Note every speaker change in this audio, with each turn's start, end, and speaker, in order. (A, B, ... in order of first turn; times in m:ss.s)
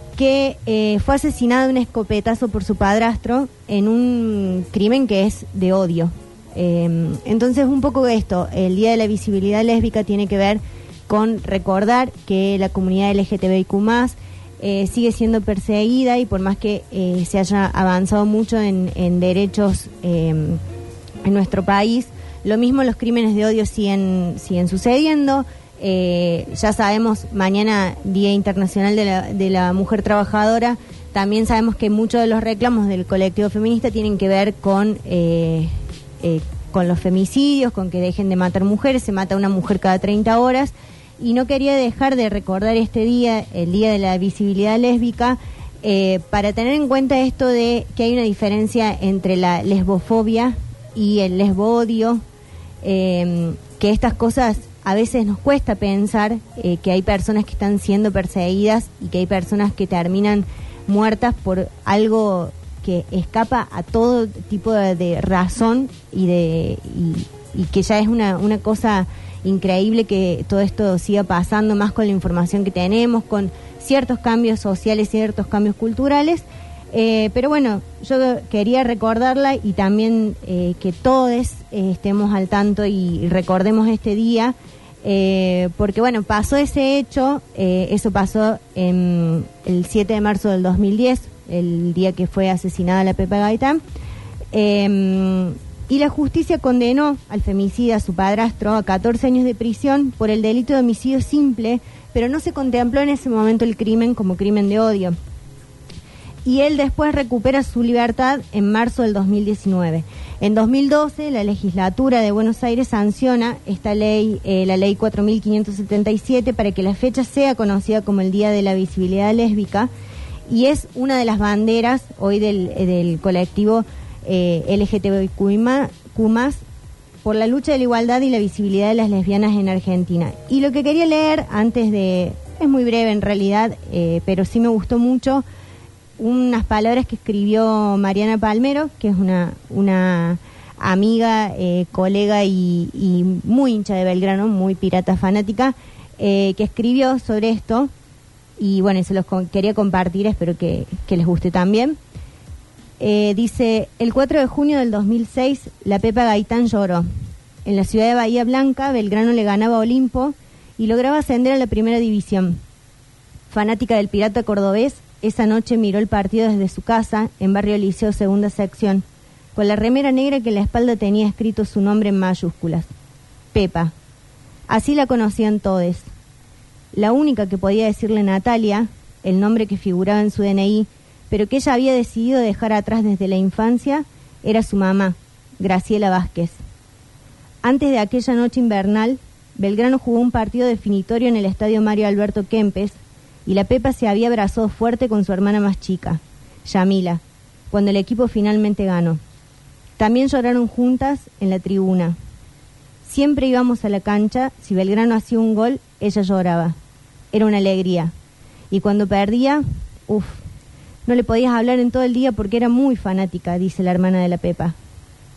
0:00.2-0:20.6 A
0:21.2-0:52.2 A
0:52.8-1:33.8 A
1:34.5-1:45.2 A
1:46.4-1:59.9 A
2:00.5-2:06.6 A
2:07.2-2:15.4 A
2:16.2-2:27.9 A
2:28.6-2:32.0 A
2:33.0-2:37.1 A
2:37.6-2:42.6 A
2:43.5-2:52.9 A
2:53.5-2:53.9 A
2:54.7-2:56.1 A
2:56.9-3:06.6 A
3:07.6-3:19.2 A
3:20.0-3:22.2 A
3:23.0-3:26.8 A
3:27.3-3:28.1 A
3:28.7-3:30.4 A
3:31.1-3:34.8 A